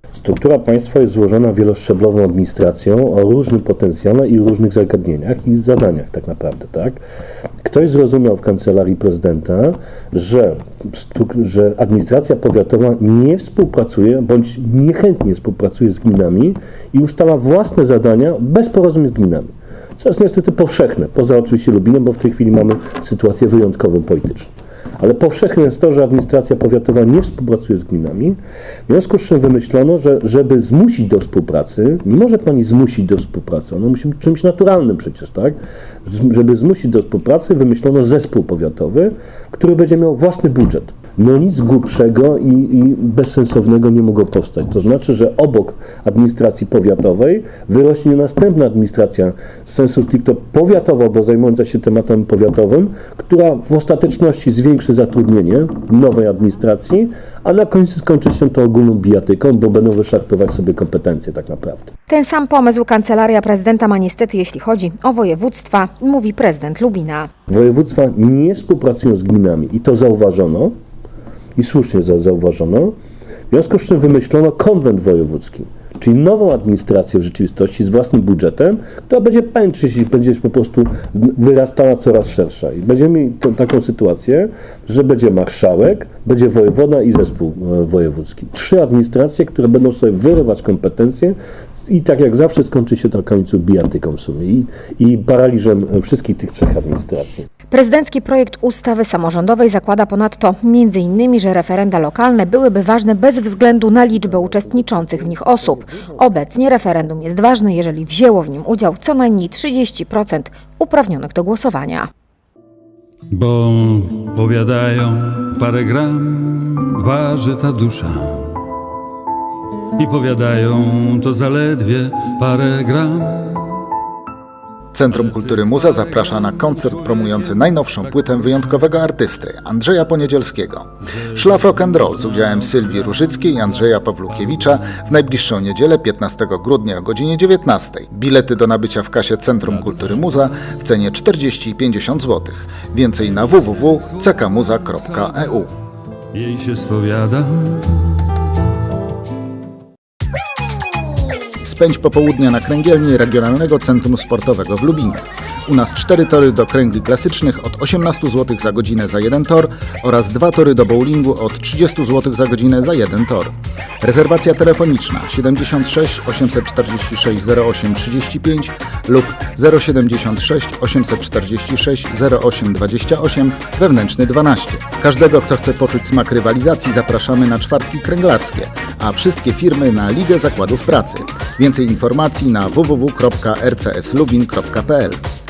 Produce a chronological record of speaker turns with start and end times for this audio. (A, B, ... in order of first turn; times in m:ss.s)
0:00.1-0:07.0 A
0:07.6-1:01.9 A
1:02.1-1:07.3 B
1:07.5-1:10.7 A
1:11.6-1:12.9 A
1:13.5-1:37.4 A
1:37.7-1:52.1 B
1:53.3-1:58.6 C
2:00.0-2:03.8 C
2:04.9-2:25.7 D
2:05.1-2:09.0 C
2:11.3-2:15.0 C
2:19.6-2:20.6 C
2:23.2-2:25.6 C
2:26.3-2:28.2 C
2:31.6-3:05.2 D